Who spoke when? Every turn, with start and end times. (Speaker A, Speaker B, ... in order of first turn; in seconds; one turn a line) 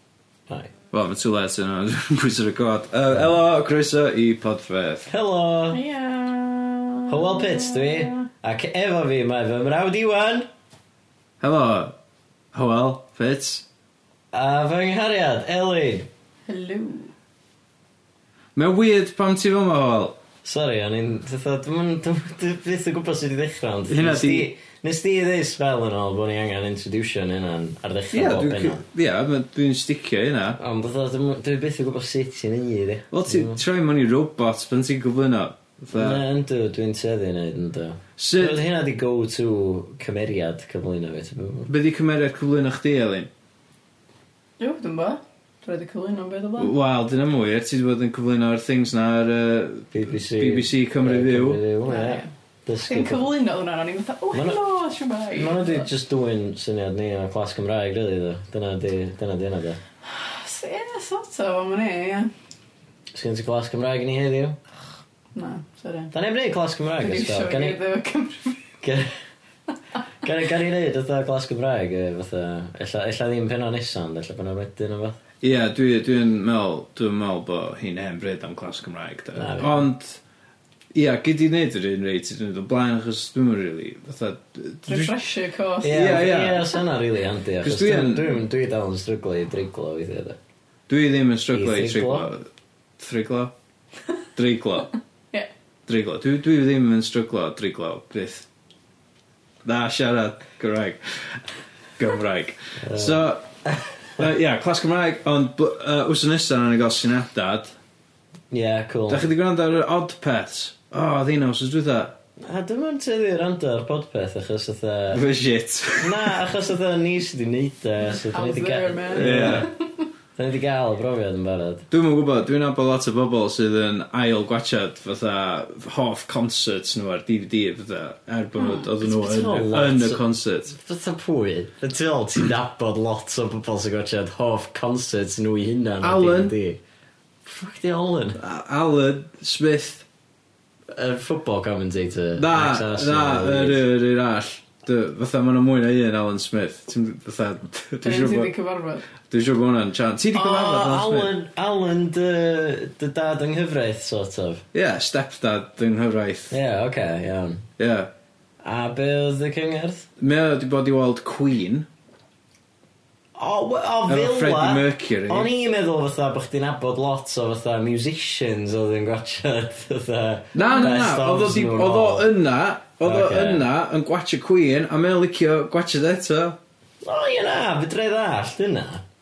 Speaker A: 0.9-5.1
Speaker B: 5.1-5.8
Speaker C: 5.7-8.2
Speaker B: 7.1-10.5
Speaker A: 11.4-12.0
Speaker A: 12.5-13.7
Speaker B: 14.3-16.1
Speaker C: 16.5-17.1
Speaker A: 18.6-20.2
Speaker B: 20.4-28.8
Speaker A: 23.9-24.5
Speaker A: 28.1-30.6
Speaker B: 30.6-33.6
Speaker A: 33.1-36.2
Speaker B: 35.9-41.7
Speaker A: 38.2-38.6
Speaker A: 41.7-43.3
Speaker C: 44.6-46.7
Speaker A: 46.6-51.6
Speaker B: 49.9-53.3
Speaker C: 51.9-52.3
Speaker C: 52.9-55.9
Speaker B: 54.3-54.6
Speaker B: 55.4-59.8
Speaker C: 60.0-62.3
Speaker B: 63.1-64.6
Speaker C: 65.3-66.1
Speaker B: 66.1-67.8
Speaker C: 67.0-68.6
Speaker B: 68.8-69.2
Speaker B: 70.2-75.2
Speaker A: 75.4-80.2
Speaker B: 79.3-79.8
Speaker A: 80.9-85.2
Speaker C: 84.9-86.5
Speaker B: 85.8-90.4
Speaker A: 85.9-86.7
Speaker A: 87.6-88.4
Speaker A: 90.9-92.5
Speaker B: 91.5-92.3
Speaker A: 93.0-93.5
Speaker A: 94.4-94.9
Speaker A: 95.9-98.5
Speaker A: 99.7-101.4
Speaker A: 102.0-103.5
Speaker B: 102.8-103.9
Speaker A: 104.2-107.8
Speaker B: 108.5-109.3
Speaker A: 109.1-112.2
Speaker B: 112.4-115.2
Speaker A: 115.1-116.4
Speaker B: 116.0-119.7
Speaker C: 118.0-119.7
Speaker A: 119.1-119.7
Speaker B: 120.4-121.9
Speaker A: 121.9-130.8
Speaker C: 128.6-128.9
Speaker B: 129.0-136.8
Speaker A: 136.0-136.6
Speaker B: 137.4-138.4
Speaker A: 138.4-140.1
Speaker B: 140.9-143.8
Speaker A: 142.4-148.5
Speaker C: 148.0-149.1
Speaker A: 149.3-151.3
Speaker B: 150.3-154.7
Speaker A: 154.7-156.6
Speaker B: 156.5-157.7
Speaker A: 157.8-158.1
Speaker B: 158.6-160.1
Speaker A: 160.2-161.9
Speaker B: 163.4-172.3
Speaker A: 164.1-165.5
Speaker A: 170.6-176.6
Speaker B: 173.0-173.7
Speaker B: 177.0-179.0